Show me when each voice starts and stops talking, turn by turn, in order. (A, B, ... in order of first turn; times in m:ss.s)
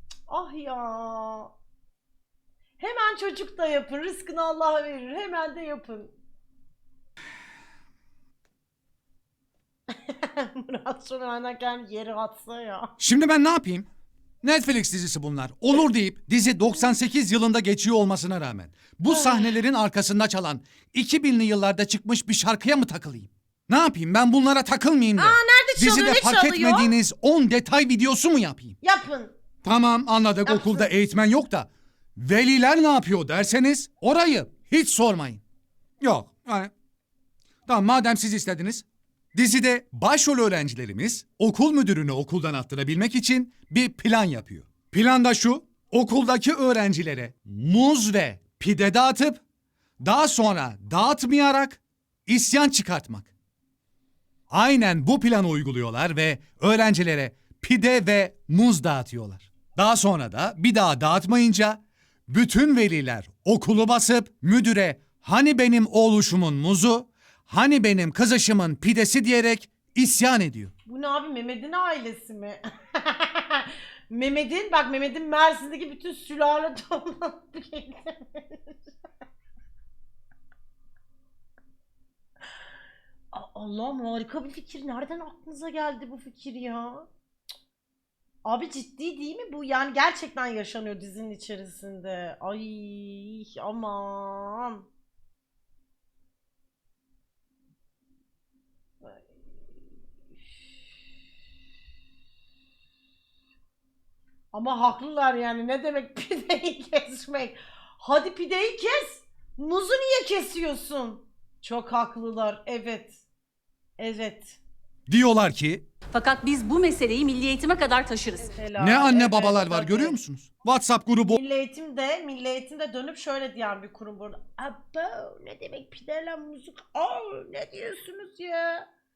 0:00.3-0:01.5 A
0:02.8-0:06.1 A
0:09.9-0:12.9 A
0:13.0-0:13.9 B
0:14.4-0:28.8 B
0:19.1-0:19.4 A
0:25.2-0:26.9 A
0:28.8-0:29.3 A
0:29.6-0:35.4 B
0:30.4-0:30.9 A
0:36.0-0:36.7 B
0:37.7-0:49.4 B
0:50.0-0:53.3 B
0:54.5-1:10.7 B
1:10.9-1:18.7 A
1:23.3-1:27.1 A
1:28.4-1:34.8 A
1:44.5-1:53.2 A
1:54.0-1:54.6 A
1:55.1-1:55.8 B
1:56.1-1:58.5 C
1:58.5-2:00.2 A
1:58.8-2:01.4 B
2:01.3-2:08.9 A